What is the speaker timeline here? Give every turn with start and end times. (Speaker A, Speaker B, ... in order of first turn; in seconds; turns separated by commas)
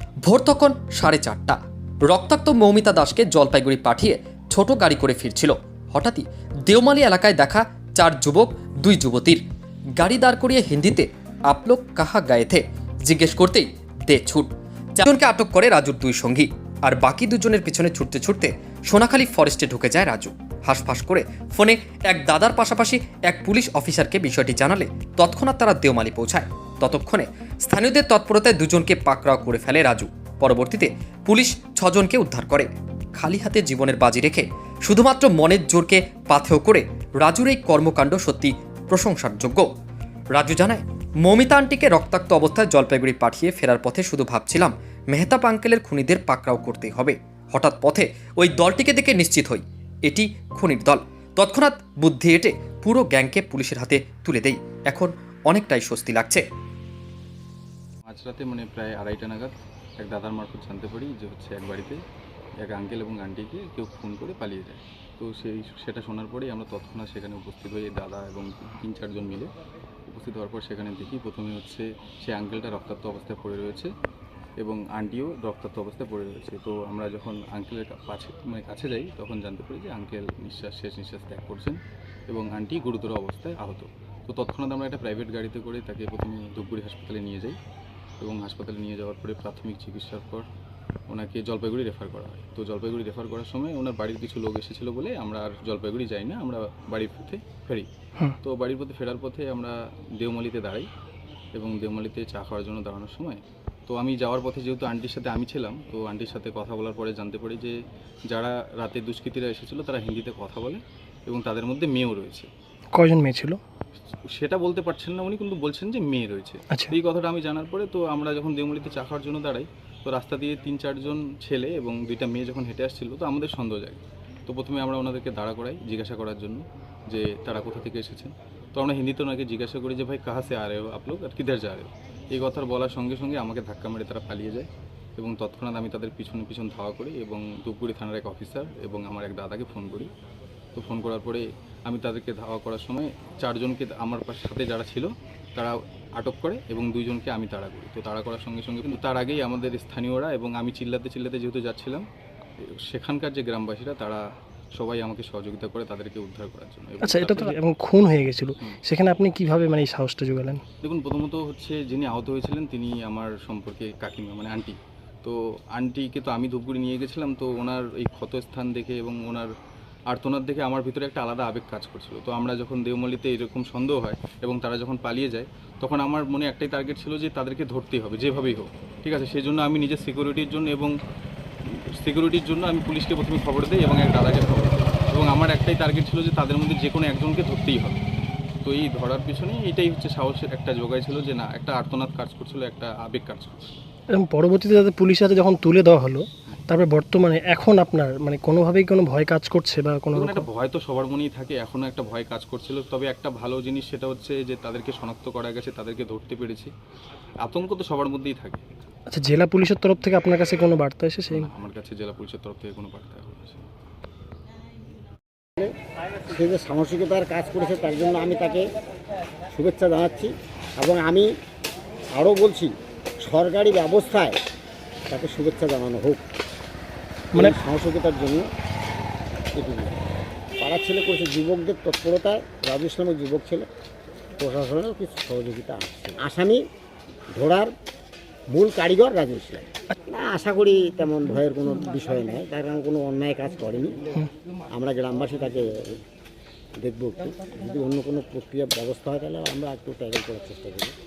Speaker A: 0.2-1.6, Speaker A: 2.1-9.4, Speaker A: 10.0-39.7, Speaker A: 40.3-56.4, Speaker B: 58.1-62.0, Speaker B: 62.6-69.5, Speaker B: 70.1-73.9, Speaker B: 74.6-87.6, Speaker B: 88.2-90.5, Speaker B: 91.1-97.9, Speaker B: 98.4-100.9, Speaker B: 101.6-107.8, Speaker B: 108.3-112.5, Speaker C: 112.9-113.6, Speaker B: 114.3-140.1, Speaker B: 140.8-152.0, Speaker B: 152.6-154.2, Speaker B: 154.8-157.6, Speaker C: 157.0-160.6, Speaker B: 160.8-169.5, Speaker B: 170.1-180.9, Speaker B: 181.7-188.0, Speaker B: 188.6-193.8, Speaker C: 194.1-200.5, Speaker B: 200.1-206.7, Speaker B: 207.4-208.7, Speaker C: 209.1-211.5, Speaker B: 211.3-213.7, Speaker D: 216.3-218.7, Speaker D: 219.5-221.3, Speaker D: 222.1-224.4, Speaker D: 225.1-226.2, Speaker D: 227.3-228.5, Speaker D: 229.6-230.1, Speaker D: 230.6-233.7, Speaker D: 234.4-236.6, Speaker D: 237.3-237.7, Speaker D: 238.5-244.1, Speaker D: 244.7-246.0, Speaker D: 246.8-250.9